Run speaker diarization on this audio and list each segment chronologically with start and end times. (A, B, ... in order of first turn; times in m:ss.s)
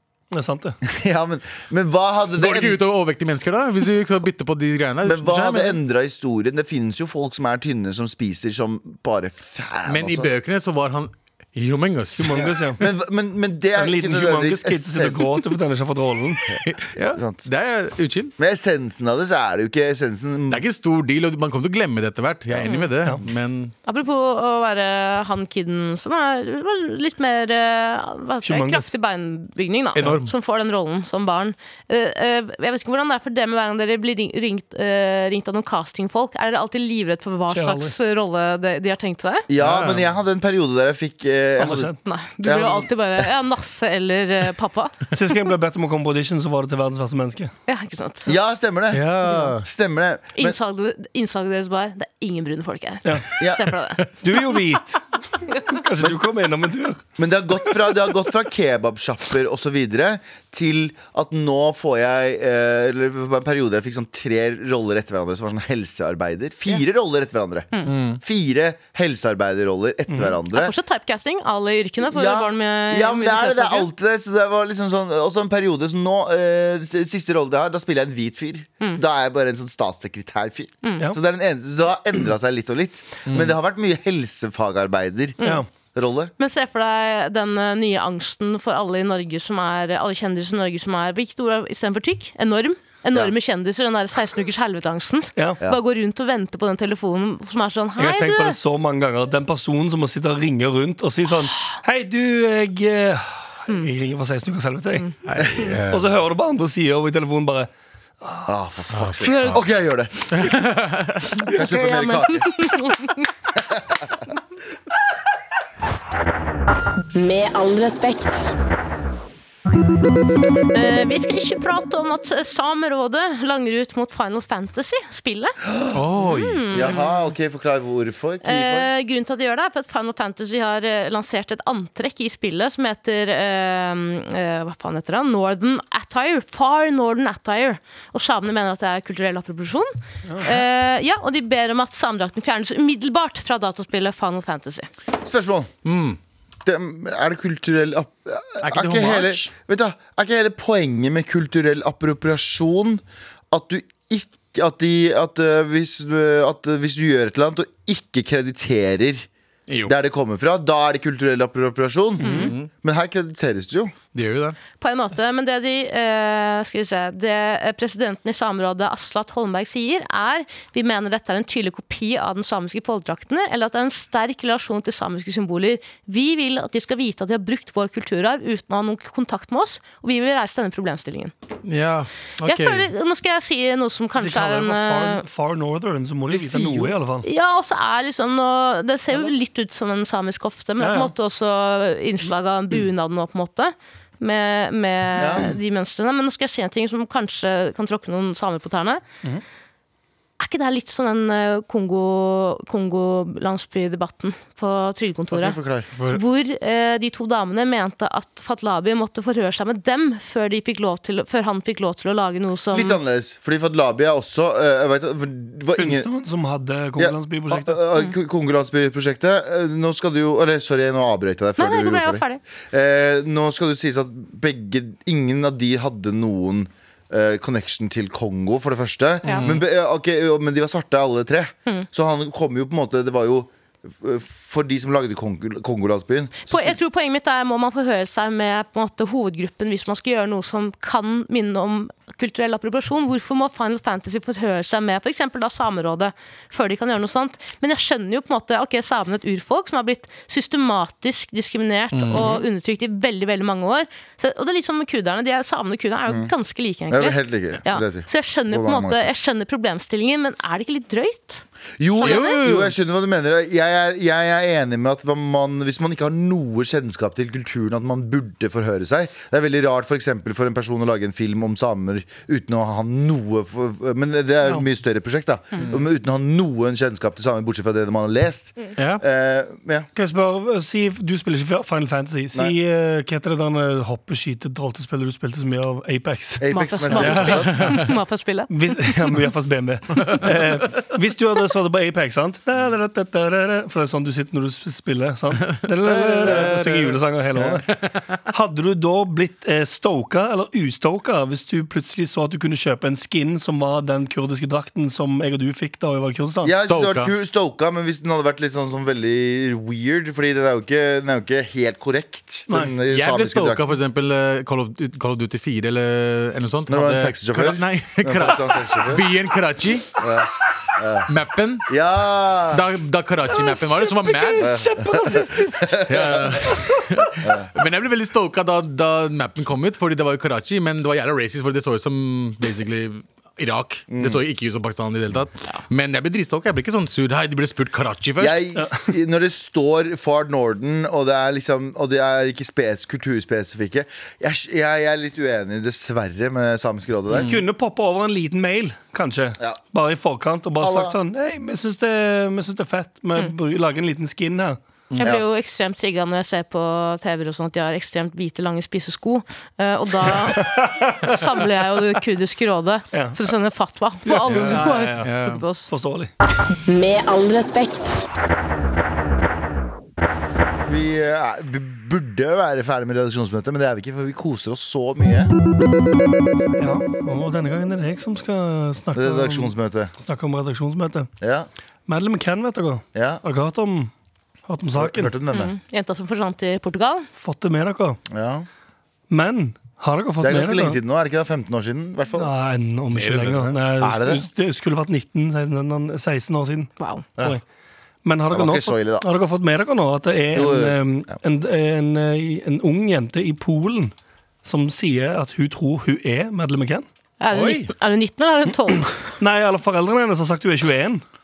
0:00.3-0:00.8 A
0:00.8-0:02.8 B
0:02.4-0:05.8 C
0:05.0-0:10.3 B
0:09.9-0:12.5 C
0:12.2-0:12.8 A
0:12.3-0:15.3 B
0:13.8-0:16.4 A
0:16.6-0:18.3 C
0:17.1-0:17.5 B
0:18.4-0:20.6 B
0:20.5-0:23.7 C
0:22.6-0:22.9 D
0:23.8-0:39.5 D
0:28.4-0:28.9 A
0:30.0-0:30.3 C
0:37.5-0:38.0 A
0:39.5-0:41.9 B
0:39.6-0:40.1 C
0:41.6-0:42.0 A
0:42.0-0:45.1 D
0:42.4-0:42.9 B
0:45.1-0:47.5 A
0:47.7-0:48.3 D
0:48.3-0:50.6 B
0:48.9-0:49.7 C
0:50.4-0:54.0 D
0:53.4-0:53.6 B
0:54.2-0:57.0 A
0:57.2-1:10.7 B
1:07.9-1:08.2 C
1:10.1-1:10.4 A
1:10.5-1:13.9 D
1:12.0-1:25.4 B
1:20.8-1:21.1 D
1:23.3-1:23.5 C
1:25.9-1:26.3 B
1:26.4-1:38.6 D
1:38.0-1:45.1 A
1:45.3-1:46.1 C
1:45.9-1:47.7 A
1:48.2-1:48.5 A
1:48.5-1:50.5 B
1:48.9-1:49.6 C
1:49.2-1:49.6 D
1:50.3-1:51.4 C
1:51.4-1:52.7 B
1:51.4-1:53.3 D
1:53.7-1:54.1 B
1:57.1-1:58.5 E
2:00.7-2:05.6 D
2:05.7-2:06.0 B
2:05.9-2:06.8 C
2:06.2-2:07.1 D
2:06.7-2:08.9 B
2:08.4-2:24.9 D
2:25.2-2:25.7 B
2:25.8-2:26.2 C
2:26.6-2:39.3 B
2:28.6-2:29.5 C
2:39.7-2:39.9 C
2:39.9-2:44.0 B
2:42.2-2:42.5 D
2:42.2-2:42.5 A
2:42.3-2:42.7 C
2:44.1-2:44.6 C
2:44.8-3:01.3 D
3:01.6-3:02.9 C
3:02.4-3:05.2 D
3:04.2-3:07.3 A
3:06.3-3:07.0 B
3:07.2-3:19.0 D
3:10.8-3:11.1 A
3:15.2-3:15.6 B
3:20.4-3:33.0 D
3:25.3-3:25.9 B
3:26.0-3:26.2 C
3:32.7-3:36.1 B
3:35.8-3:37.8 A
3:37.0-3:56.8 B
3:41.6-3:42.4 D
3:49.2-3:49.6 D
3:49.3-3:49.6 C
3:56.5-4:21.4 D
4:11.9-4:12.4 C
4:16.9-4:19.1 B
4:21.8-4:39.9 B
4:22.0-4:22.4 D
4:22.0-4:22.8 C
4:38.8-4:39.0 C
4:40.0-4:46.4 A
4:46.4-4:47.8 B
4:46.5-4:49.0 D
4:47.0-4:47.9 C
4:48.5-4:57.7 A
4:50.0-4:50.6 C
4:55.5-4:57.0 C
4:57.7-4:58.0 C
4:58.3-5:06.5 A
5:06.4-5:13.7 B
5:06.7-5:07.1 C
5:12.9-5:19.9 C
5:16.7-5:19.1 B
5:20.0-5:21.1 B
5:21.1-5:21.7 C
5:21.7-5:22.7 B
5:22.5-5:24.6 C
5:23.3-5:26.9 A
5:24.4-5:26.2 B
5:25.9-5:38.4 C
5:27.2-5:27.5 B
5:33.9-5:34.2 B
5:38.2-5:47.3 B
5:47.1-5:47.4 C
5:47.2-5:54.6 A
5:50.6-5:51.0 B
5:55.0-6:05.7 D
6:00.2-6:01.2 A
6:02.9-6:03.2 A
6:04.1-6:05.1 A
6:04.3-6:05.4 C
6:05.7-6:06.1 A
6:06.7-6:08.0 E
6:10.7-6:15.3 B
6:16.6-6:21.1 A
6:19.0-6:19.9 B
6:21.2-6:21.5 B
6:21.9-6:23.9 A
6:23.0-6:23.2 B
6:24.5-6:25.2 A
6:24.8-6:25.5 B
6:25.3-6:27.1 D
6:27.2-6:28.0 A
6:28.1-6:28.5 B
6:29.1-6:30.8 A
6:30.2-6:32.3 B
6:32.2-6:37.4 A
6:32.9-6:33.6 C
6:33.8-6:34.3 B
6:36.8-6:37.0 D
6:38.0-6:43.9 A
6:38.3-6:39.1 B
6:40.3-6:41.2 B
6:44.4-6:46.9 A
6:47.2-6:48.9 D
6:47.3-6:47.7 C
6:49.2-6:51.0 A